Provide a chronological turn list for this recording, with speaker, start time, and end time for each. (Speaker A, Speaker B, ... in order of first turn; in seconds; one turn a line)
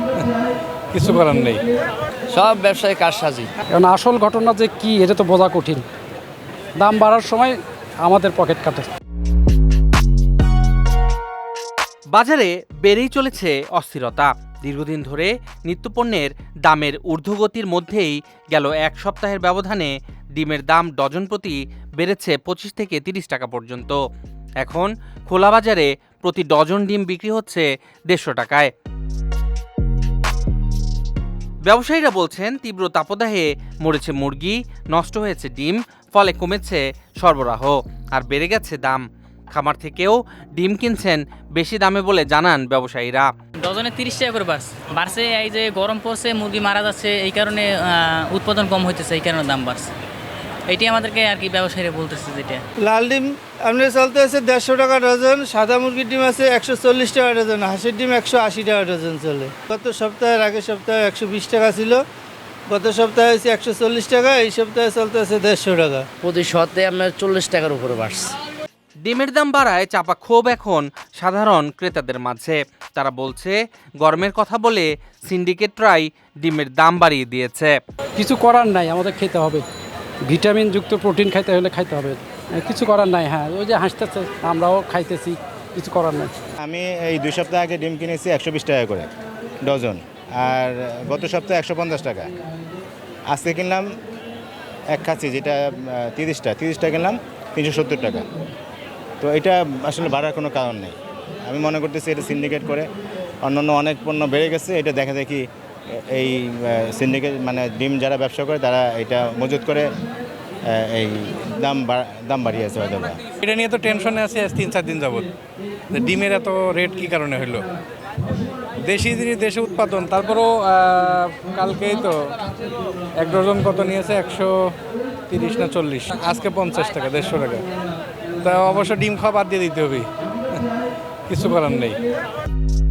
Speaker A: 0.9-1.6
Speaker B: 2.3-3.5
Speaker C: 3.7-5.8
Speaker C: 6.8-8.9
Speaker D: 12.1-24.0
Speaker D: 24.6-28.7
Speaker D: 31.6-43.3
Speaker E: 43.6-49.9
Speaker E: 50.7-52.6
Speaker F: 52.8-62.0
Speaker F: 62.7-66.0
Speaker B: 66.2-68.3
Speaker D: 69.0-77.7
Speaker C: 78.2-79.6
Speaker C: 80.3-86.3
Speaker G: 86.6-89.1
Speaker G: 89.6-92.3
Speaker G: 93.3-93.9
Speaker G: 94.9-98.2
Speaker G: 99.2-100.9
Speaker G: 101.5-102.9
Speaker G: 103.4-109.9
Speaker G: 110.7-113.2
Speaker A: 113.4-115.2
Speaker A: 115.9-117.6
Speaker A: 118.8-122.3
Speaker A: 123.2-124.7
Speaker A: 125.3-127.6
Speaker A: 128.4-130.1
Speaker A: 131.3-132.0